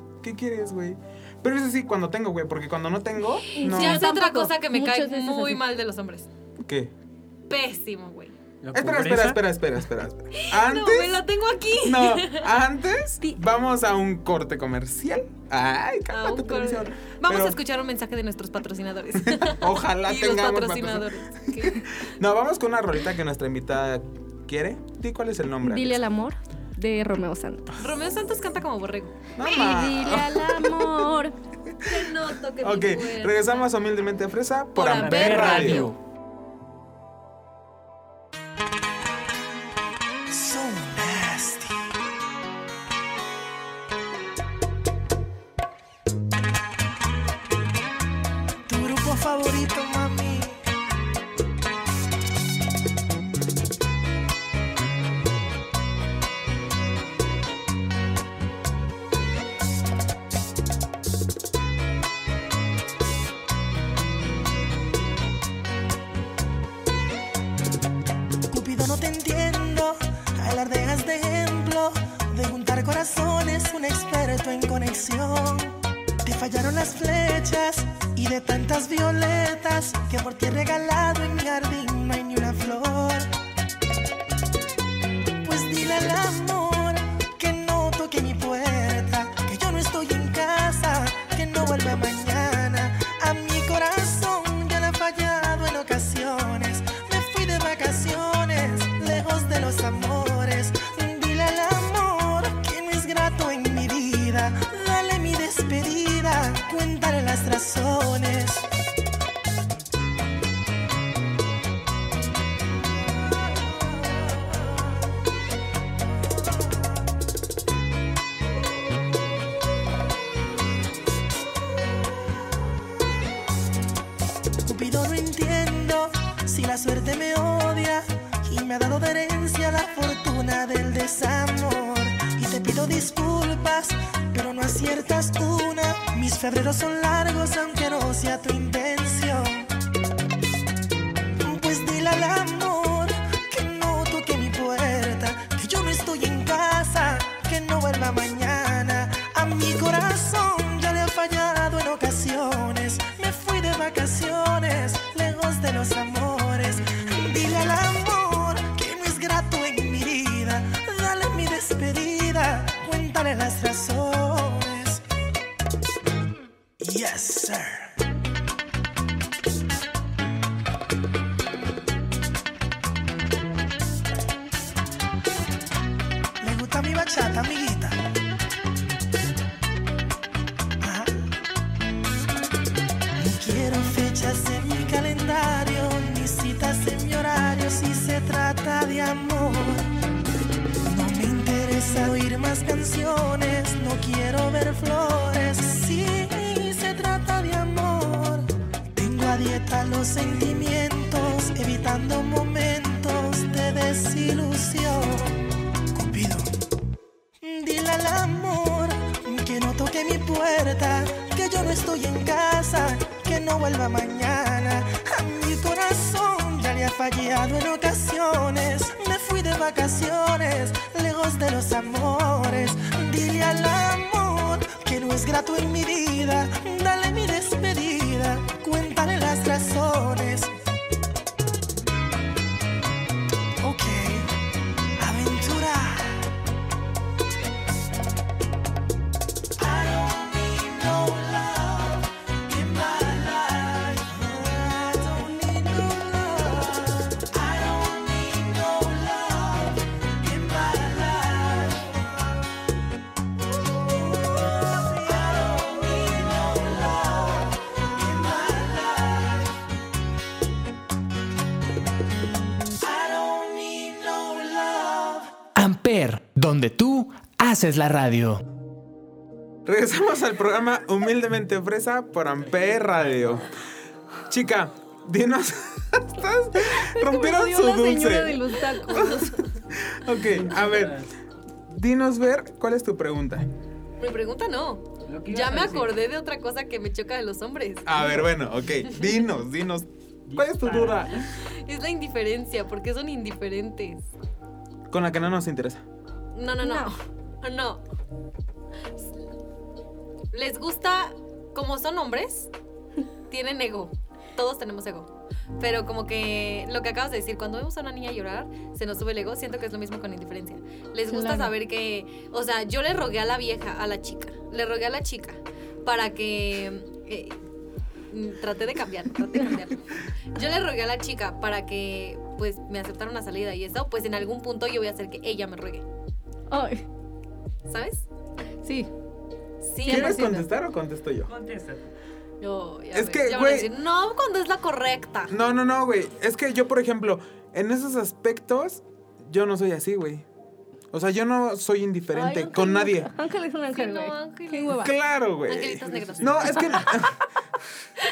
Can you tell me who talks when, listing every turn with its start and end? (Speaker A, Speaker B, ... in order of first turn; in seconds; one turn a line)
Speaker A: 0.2-4.1
Speaker B: 3.5-5.6
Speaker C: 3.6-6.3
Speaker A: 6.6-6.9
Speaker C: 7.5-8.3
Speaker D: 8.6-9.4
Speaker A: 8.7-11.2
Speaker C: 10.3-12.5
Speaker A: 11.8-17.6
Speaker C: 16.1-22.0
Speaker A: 19.2-26.0
Speaker B: 25.6-27.7
Speaker C: 27.8-29.3
Speaker A: 29.4-31.1
Speaker B: 29.4-31.3
Speaker C: 31.8-33.7
Speaker A: 32.6-35.9
Speaker C: 34.7-35.9
Speaker D: 34.9-36.0
Speaker E: 40.3-41.9
Speaker E: 48.7-50.6
Speaker E: 68.5-83.3
Speaker E: 85.4-108.7
Speaker E: 124.6-139.7
Speaker E: 141.4-165.0
Speaker E: 166.8-167.9
Speaker E: 176.4-178.0
Speaker E: 180.8-181.2
Speaker E: 183.2-189.9
Speaker E: 190.8-205.4
Speaker E: 205.9-206.6
Speaker E: 207.4-230.5
Speaker E: 233.6-234.3
Speaker E: 235.0-236.3
Speaker E: 239.6-252.3
Speaker E: 253.6-259.5
Speaker E: 262.8-265.3
Speaker F: 265.5-268.4
Speaker A: 269.6-273.5
Speaker D: 272.5-273.4
Speaker A: 274.3-281.0
Speaker B: 276.6-279.4
Speaker D: 280.3-281.1
Speaker A: 281.7-283.5
Speaker C: 284.0-288.1
Speaker D: 285.0-285.9
Speaker A: 287.9-291.2
Speaker D: 290.3-291.3
Speaker C: 291.3-294.1
Speaker A: 294.9-295.8
Speaker C: 296.3-297.8
Speaker B: 296.6-296.9
Speaker C: 300.3-302.5
Speaker C: 303.3-317.4
Speaker B: 311.1-311.5
Speaker C: 318.1-325.8
Speaker B: 326.5-326.8
Speaker C: 327.7-328.1
Speaker B: 328.6-328.9
Speaker C: 329.6-330.2
Speaker B: 329.8-330.5
Speaker A: 329.9-331.3
Speaker D: 331.3-331.9
Speaker C: 332.4-335.3
Speaker A: 332.9-333.7
Speaker A: 335.3-340.2
Speaker A: 340.9-343.1
Speaker B: 342.1-344.9
Speaker C: 343.7-347.0
Speaker A: 344.7-347.2
Speaker D: 345.8-346.8